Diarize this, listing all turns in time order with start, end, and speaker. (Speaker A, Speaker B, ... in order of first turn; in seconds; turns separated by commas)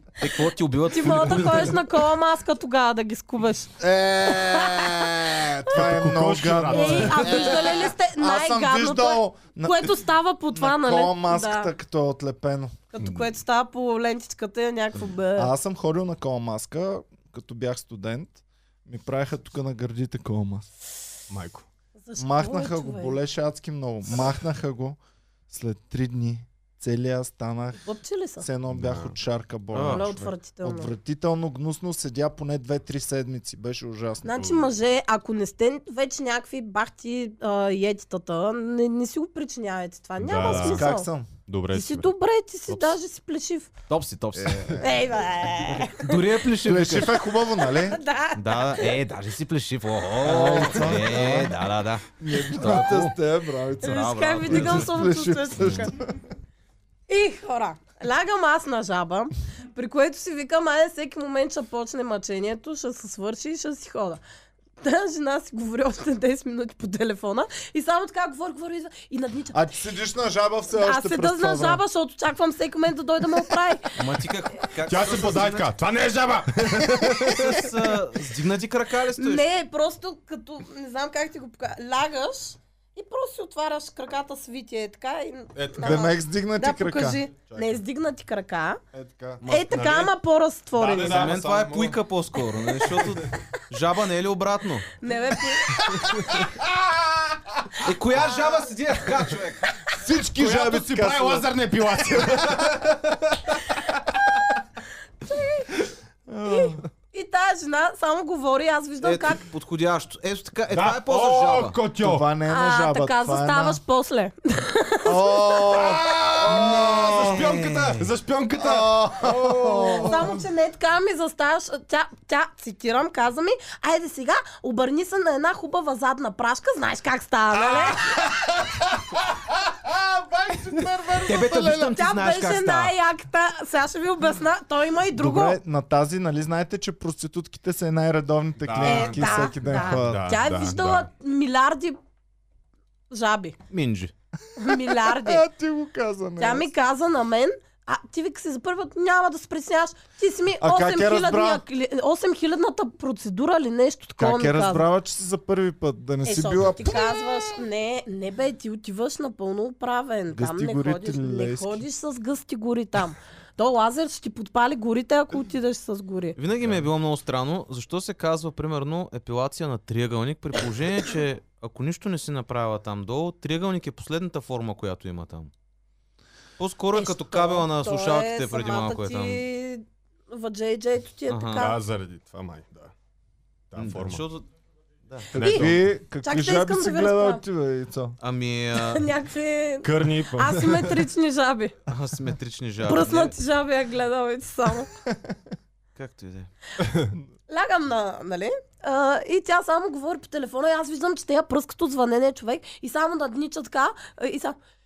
Speaker A: 0.2-1.8, Speaker B: 0.9-3.7, Speaker C: 1.1-1.7, Speaker D: 3.8-9.9, Speaker C: 5.7-7.6, Speaker B: 6.7-11.7, Speaker D: 10.5-12.7, Speaker B: 12.9-15.5, Speaker D: 15.4-20.6, Speaker C: 21.3-21.6, Speaker B: 22.0-23.2, Speaker D: 22.2-25.0, Speaker D: 25.5-27.8, Speaker B: 27.8-28.4, Speaker D: 28.4-34.7, Speaker C: 28.7-29.2, Speaker A: 29.7-30.0, Speaker B: 29.9-30.9, Speaker B: 34.2-41.1, Speaker C: 40.2-40.8, Speaker D: 40.5-41.3, Speaker C: 41.5-42.1, Speaker B: 41.7-43.7, Speaker A: 42.7-43.0, Speaker A: 43.9-44.8, Speaker D: 44.3-44.8, Speaker B: 44.8-46.4, Speaker A: 45.7-47.2, Speaker D: 46.6-48.0, Speaker B: 47.5-49.0, Speaker A: 48.4-53.1, Speaker D: 50.2-51.5, Speaker D: 52.2-56.1, Speaker A: 53.8-54.9, Speaker B: 53.8-56.0, Speaker B: 57.1-64.2, Speaker B: 64.8-69.6, Speaker D: 69.5-71.8, Speaker B: 70.7-74.0, Speaker A: 74.0-75.7, Speaker C: 74.8-77.7, Speaker A: 77.0-79.4, Speaker B: 79.2-88.8, Speaker C: 85.5-86.1, Speaker D: 85.8-87.2, Speaker C: 87.5-87.7, Speaker D: 88.9-89.4, Speaker A: 89.4-89.9, Speaker B: 89.5-91.3, Speaker C: 89.7-90.1, Speaker C: 90.8-92.0, Speaker A: 90.9-94.9, Speaker C: 92.9-93.2, Speaker B: 95.0-96.2, Speaker D: 95.7-97.6, Speaker A: 97.8-99.8, Speaker D: 99.9-101.5, Speaker C: 100.3-104.2, Speaker B: 105.2-105.7, Speaker D: 106.3-106.8, Speaker B: 106.5-109.4, Speaker A: 109.0-111.8, Speaker C: 110.7-112.2, Speaker D: 112.0-113.8, Speaker B: 112.5-115.8, Speaker D: 115.0-117.6, Speaker C: 115.7-120.4, Speaker A: 116.6-118.0, Speaker D: 118.6-120.3, Speaker B: 120.0-128.0, Speaker D: 127.8-131.9, Speaker A: 131.2-132.9, Speaker B: 131.6-135.6, Speaker D: 135.1-140.3, Speaker C: 138.6-141.1, Speaker B: 138.8-142.0, Speaker B: 143.1-143.6, Speaker A: 143.7-144.1, Speaker B: 144.6-145.4, Speaker D: 144.6-146.7, Speaker B: 146.4-154.9, Speaker D: 150.6-151.6, Speaker D: 154.2-157.6, Speaker B: 156.2-166.3, Speaker D: 160.3-161.8, Speaker A: 166.4-175.5, Speaker C: 166.6-166.9, Speaker A: 176.6-179.4, Speaker B: 176.9-181.8, Speaker A: 181.3-181.7, Speaker C: 181.6-182.9, Speaker C: 183.7-184.2, Speaker A: 183.8-184.4, Speaker A: 185.1-185.7, Speaker D: 185.3-188.2, Speaker B: 185.3-185.7, Speaker C: 185.3-185.8, Speaker B: 186.2-187.4, Speaker A: 188.2-189.1, Speaker B: 188.7-191.7, Speaker C: 189.8-191.1, Speaker A: 191.9-193.3, Speaker B: 192.8-194.9, Speaker A: 195.9-196.5, Speaker C: 196.8-197.1, Speaker B: 197.5-204.6